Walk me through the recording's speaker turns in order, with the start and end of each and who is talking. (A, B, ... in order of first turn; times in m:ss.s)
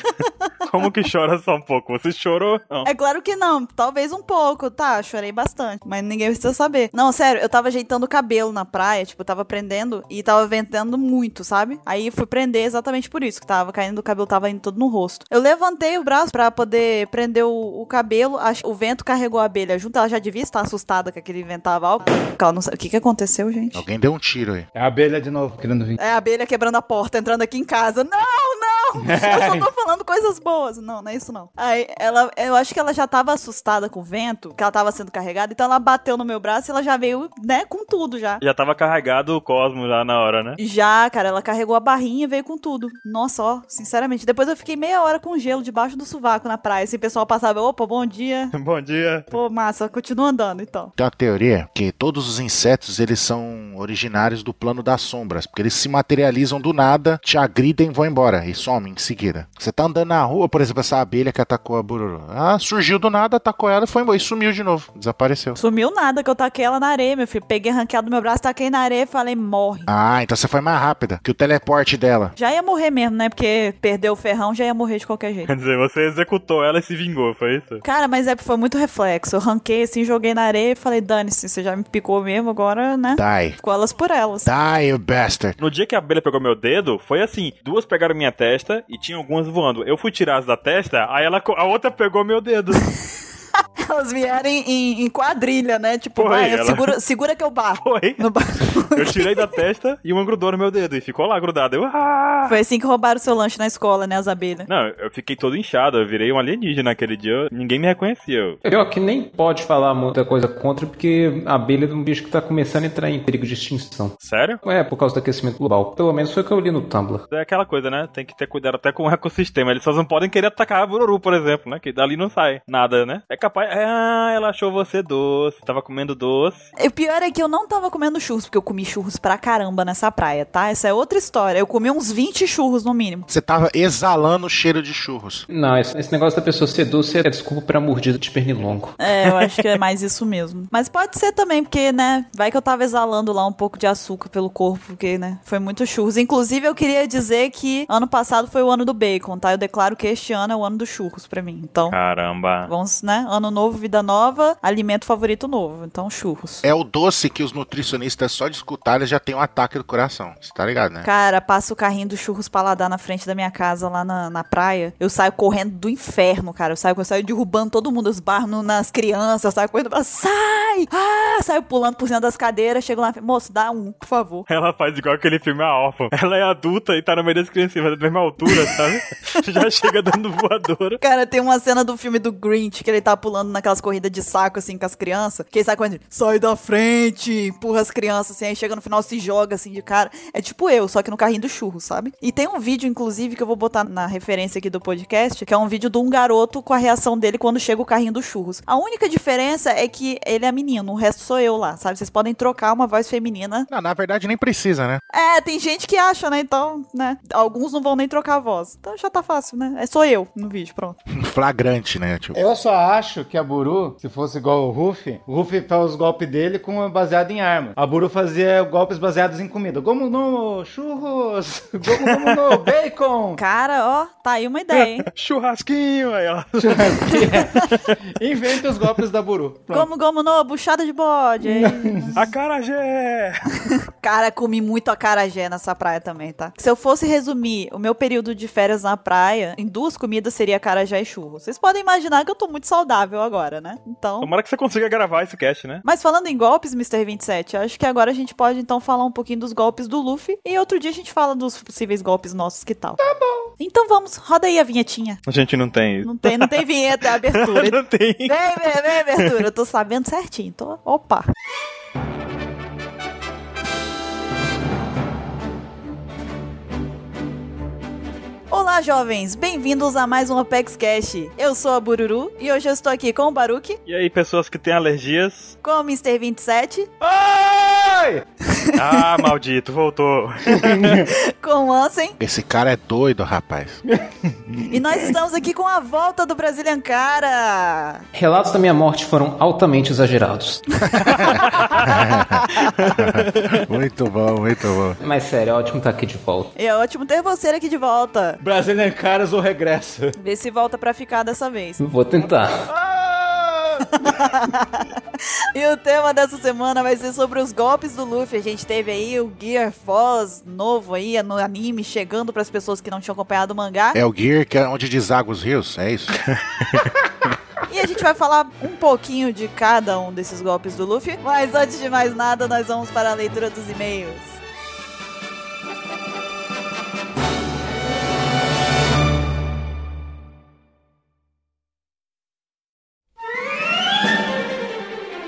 0:00.6-0:02.9 A
0:02.8-0:23.8 B
0:23.7-0:24.7 C
0:24.8-0:26.0 D
0:26.0-0:38.4 B
0:29.0-0:29.7 D
0:38.4-0:40.6 A
0:40.6-0:48.5 B
0:48.5-0:49.3 A
0:49.3-0:50.9 B
0:51.0-1:05.6 C
1:05.6-1:09.9 B
1:09.9-1:12.4 C
1:12.4-1:15.5 B
1:15.5-1:17.8 A
1:17.8-1:24.5 B
1:23.2-1:23.6 C
1:24.4-1:25.6 C
1:25.6-1:32.9 A
1:33.8-1:39.6 B
1:36.2-1:36.9 A
1:37.8-1:38.2 A
1:38.9-1:42.6 A
1:42.4-1:44.7 B
1:44.7-1:48.6 A
1:48.6-1:57.2 E
1:54.2-1:54.6 A
1:57.3-2:06.7 A
2:06.8-2:13.3 B
2:13.3-2:15.5 C
2:15.5-2:19.0 E
2:19.0-2:32.0 B
2:31.9-2:32.7 A
2:32.7-2:36.6 B
2:36.6-2:41.1 C
2:41.0-2:54.5 B
2:54.5-3:01.0 A
3:01.0-3:23.7 B
3:23.7-3:25.0 C
3:25.1-3:31.0 B
3:31.1-3:32.4 C
3:32.3-3:43.4 D
3:41.9-3:42.6 A
3:43.4-3:45.1 B
3:44.7-3:48.0 A
3:46.6-3:49.9 D
3:49.7-3:52.1 B
3:51.5-3:52.2 D
3:52.2-3:53.5 A
3:53.6-4:04.3 B
4:04.2-4:05.8 A
4:05.8-4:13.0 B
4:13.1-4:13.4 D
4:13.6-4:15.2 B
4:15.3-4:19.4 A
4:16.0-4:21.3 B
4:28.5-4:33.8 B
4:33.9-4:35.6 A
4:35.6-4:36.9 B
4:37.0-4:38.2 D
4:38.4-4:39.2 B
4:38.8-4:41.1 A
4:40.5-4:41.1 D
4:41.1-4:42.2 B
4:42.2-4:43.8 C
4:43.9-4:45.1 D
4:44.7-4:48.0 B
4:48.1-4:51.5 E
4:51.0-4:55.0 C
4:52.8-4:53.6 A
4:55.0-4:56.5 E
4:56.6-4:58.4 B
4:58.4-5:00.2 D
5:00.2-5:01.8 B
5:01.8-5:02.7 E
5:02.7-5:04.1 D
5:04.0-5:05.0 B
5:05.6-5:14.0 B
5:13.9-5:17.3 C
5:17.7-5:24.4 B